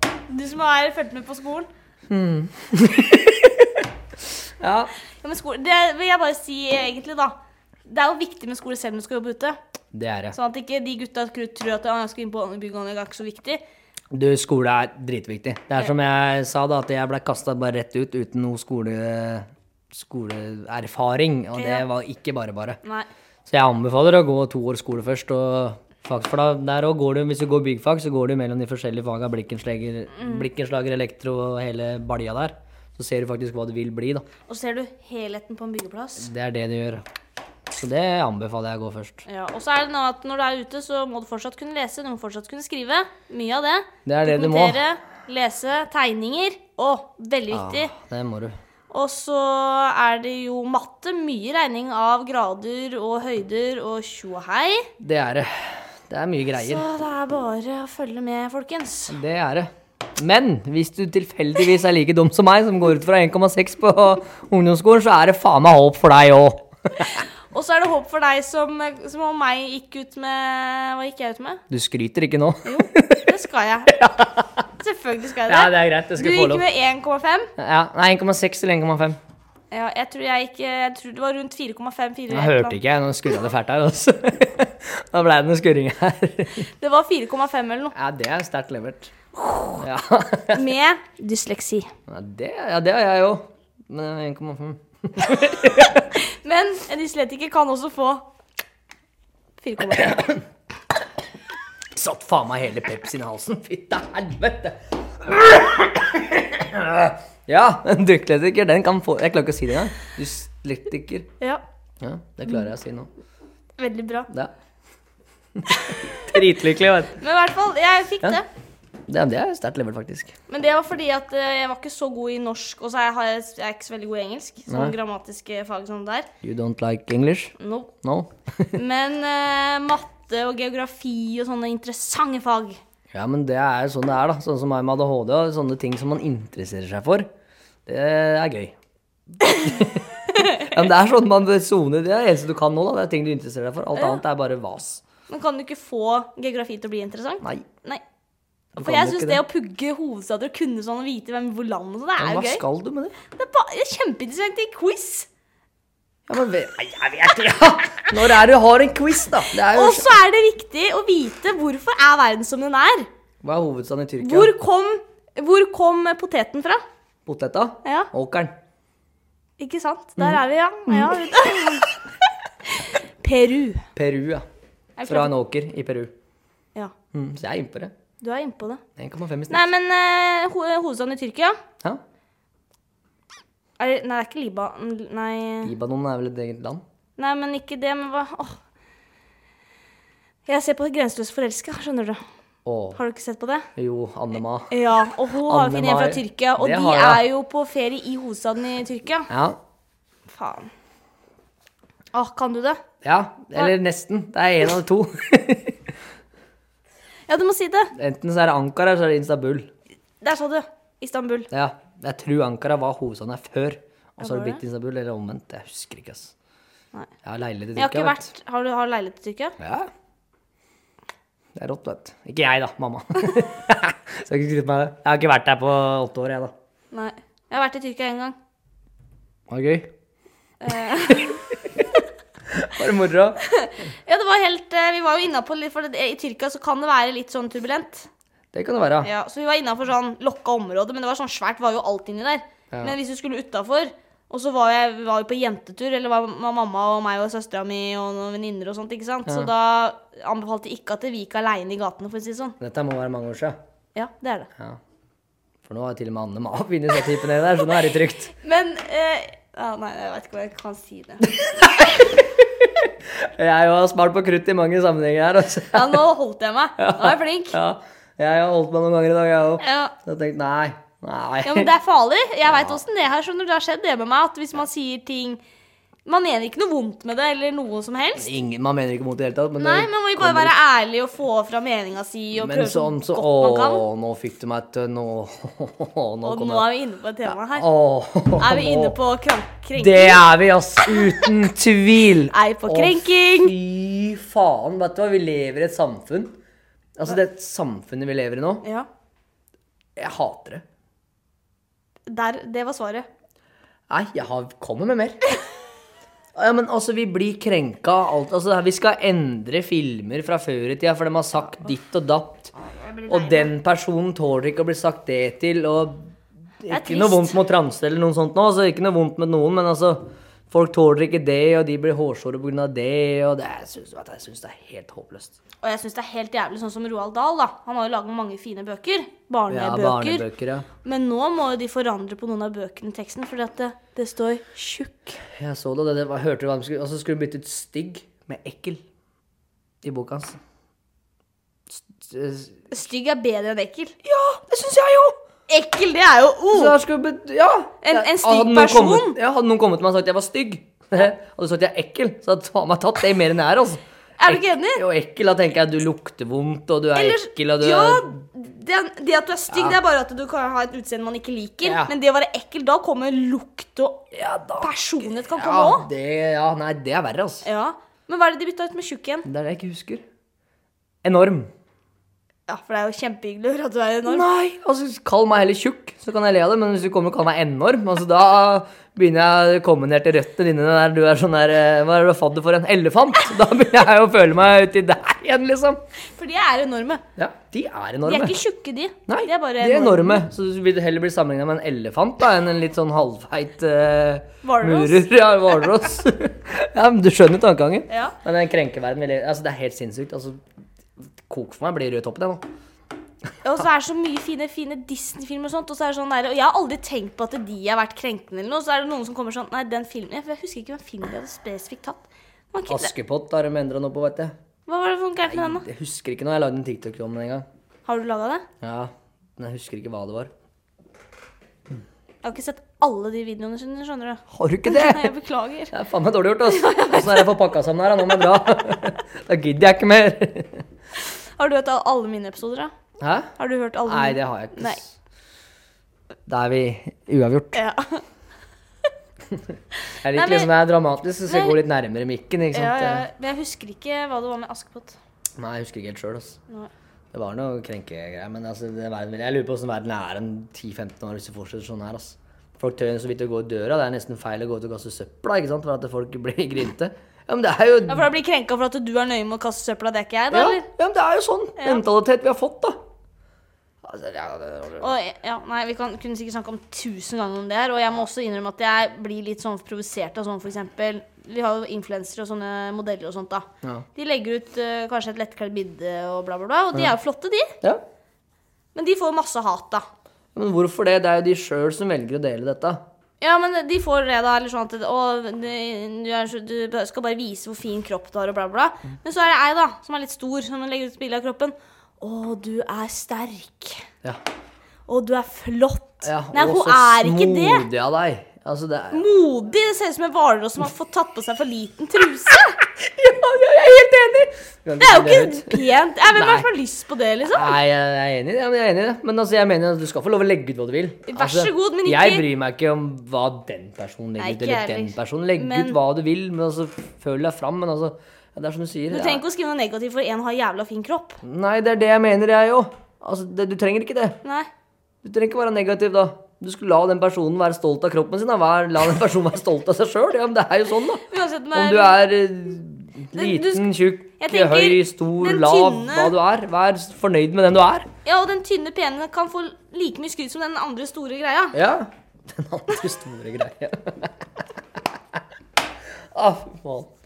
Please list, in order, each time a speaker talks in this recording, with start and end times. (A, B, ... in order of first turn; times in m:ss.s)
0:00.3-0:01.7 A
0:02.1-0:03.9 B
0:04.6-0:04.9 B
0:05.2-0:09.6 A
0:09.9-0:10.4 B
0:10.3-0:13.6 A
0:14.1-0:22.8 B
0:21.5-0:21.8 A
0:23.5-0:34.2 B
0:30.2-0:30.4 A
0:34.5-0:36.3 A
0:36.2-0:37.0 B
0:37.7-0:39.2 B
0:39.2-0:47.9 A
0:44.0-0:44.8 B
0:47.5-0:48.5 B
0:48.9-0:54.9 A
0:55.0-0:56.8 B
0:56.5-0:59.2 A
0:59.1-1:07.2 B
1:07.0-1:11.6 A
1:11.7-1:13.3 B
1:12.6-1:14.0 A
1:13.9-1:14.6 B
1:14.8-1:17.5 A
1:15.4-1:16.6 B
1:17.6-1:19.2 B
1:19.7-1:22.8 A
1:22.3-1:26.7 B
1:26.6-1:27.9 A
1:27.9-1:29.1 B
1:29.4-1:29.8 A
1:29.8-1:30.7 B
1:30.5-1:31.9 A
1:32.1-1:36.1 B
1:36.1-1:38.2 A
1:39.6-1:40.2 A
1:39.9-1:40.4 B
1:41.9-1:51.3 B
1:52.0-1:53.1 B
1:53.8-1:54.3 A
1:55.6-1:57.2 B
1:55.8-1:56.3 A
1:57.2-1:58.4 A
1:59.1-2:00.3 B
2:00.5-2:06.3 A
2:04.7-2:05.0 B
2:06.4-2:08.8 B
2:07.6-2:07.9 A
2:08.7-2:12.8 A
2:13.1-2:17.3 B
2:17.8-2:18.8 B
2:19.4-2:25.0 B
2:20.4-2:20.7 A
2:23.9-2:24.2 A
2:25.3-2:28.0 A
2:28.7-2:29.4 B
2:28.8-2:32.6 A
2:32.2-2:33.2 B
2:33.3-2:35.3 A
2:36.3-2:40.1 B
2:39.6-2:43.1 A
2:43.4-2:44.5 B
2:44.2-2:46.8 A
2:47.2-2:48.5 B
2:47.8-2:48.1 A
2:49.6-2:52.0 A
2:50.2-2:51.4 B
2:52.6-2:53.9 A
2:53.9-2:54.4 B
2:55.0-2:55.3 A
2:55.0-2:56.1 B
2:57.1-2:57.9 B
2:58.2-2:58.8 A
2:59.0-2:59.6 B
2:59.5-3:01.6 A
3:03.8-3:05.7 A
3:05.6-3:06.8 B
3:07.2-3:08.6 A
3:10.4-3:12.2 A
3:12.6-3:13.0 B
3:12.9-3:13.7 A
3:13.8-3:14.7 B
3:14.7-3:19.3 A
3:15.3-3:17.2 B
3:19.3-3:19.6 B
3:20.3-3:20.7 A
3:22.1-3:22.8 A
3:23.0-3:25.9 B
3:27.3-3:27.9 A
3:27.9-3:29.7 B
3:30.2-3:31.5 A
3:31.5-3:36.3 B
3:34.2-3:34.6 A
3:37.2-3:38.3 B
3:37.8-3:39.6 A
3:39.6-3:39.9 B
3:41.5-3:46.5 B
3:46.9-3:48.4 A
3:49.5-3:49.9 B
3:50.6-3:51.5 A
3:51.1-3:51.9 B
3:52.5-3:53.4 B
3:53.4-3:58.1 A
3:58.5-3:59.1 B
3:59.0-4:12.6 A
4:12.6-4:13.6 B
4:13.9-4:14.5 A
4:15.6-4:18.3 B
4:18.4-4:21.9 A
4:21.4-4:26.0 B
4:25.7-4:27.6 A
4:26.8-4:31.7 B
4:29.6-4:29.9 A
4:31.4-4:35.4 A
4:32.5-4:32.8 B
4:36.0-4:38.3 A
4:38.2-4:40.5 B
4:39.6-4:43.8 A
4:42.3-4:46.6 B
4:46.2-4:47.7 A
4:47.3-4:49.0 B
4:48.4-4:50.2 A
4:49.8-4:56.4 B
4:50.9-4:51.3 A
4:52.3-4:53.5 A
4:57.0-4:58.6 B
5:00.0-5:00.6 B
5:02.1-5:03.0 A
5:03.9-5:05.2 B
5:06.3-5:12.5 B
5:12.6-5:13.5 A
5:13.1-5:16.1 B
5:16.6-5:25.4 B
5:16.7-5:17.4 A
5:25.6-5:30.3 A
5:29.5-5:30.7 B
5:30.8-5:35.2 A
5:35.2-5:38.8 B
5:39.8-5:40.4 B
5:41.7-5:42.7 B
5:42.7-5:44.1 A
5:44.1-5:45.2 B
5:45.5-5:46.8 A
5:46.5-5:58.2 B
5:47.8-5:49.2 A
5:54.2-5:54.8 A
5:56.9-6:04.0 A
5:59.5-5:59.8 B
6:01.6-6:01.9 B
6:04.1-6:07.4 B
6:04.6-6:05.9 A
6:07.4-6:09.2 A
6:09.2-6:10.0 B
6:11.0-6:11.5 B
6:12.5-6:14.2 A
6:14.0-6:25.8 B
6:26.2-6:27.0 A
6:27.2-6:28.4 B
6:28.0-6:30.3 A
6:29.1-6:40.4 B
6:34.4-6:35.1 A
6:37.9-6:38.2 A
6:41.2-6:42.4 B
6:43.4-6:52.9 A
6:52.7-6:54.3 B
6:54.7-6:55.6 A
6:55.2-6:57.4 B
6:57.8-6:58.4 A
6:58.6-7:00.3 B
7:02.2-7:05.7 A
7:04.3-7:05.1 B
7:05.7-7:10.6 B
7:06.4-7:07.5 A
7:11.1-7:12.7 A
7:13.0-7:13.3 B
7:13.4-7:14.8 A
7:13.8-7:14.9 B
7:16.3-7:17.6 B
7:17.5-7:18.0 A
7:19.9-7:20.5 A
7:20.0-7:23.0 B
7:21.3-7:21.6 A
7:22.5-7:25.0 A
7:25.4-7:26.4 B
7:27.1-7:38.1 B
7:37.9-7:40.7 A
7:40.3-7:42.8 B
7:41.6-7:41.8 A
7:43.8-7:44.9 B
7:44.8-7:57.5 A
7:58.7-7:59.8 A
8:00.3-8:02.8 B
8:03.2-8:13.9 A
8:14.9-8:17.7 A
8:16.0-8:19.0 B
8:18.9-8:22.6 A
8:22.6-8:26.5 B
8:24.8-8:27.6 A
8:27.3-8:39.2 B
8:31.1-8:32.2 A
8:34.2-8:35.8 A
8:38.9-8:41.2 A
8:41.2-8:44.2 B
8:44.2-8:44.5 A
8:45.0-8:57.9 B
8:51.0-8:52.0 A
8:53.1-8:53.7 A
8:54.2-8:56.1 A
8:58.0-9:01.6 A
9:01.5-9:04.1 B
9:06.1-9:06.9 B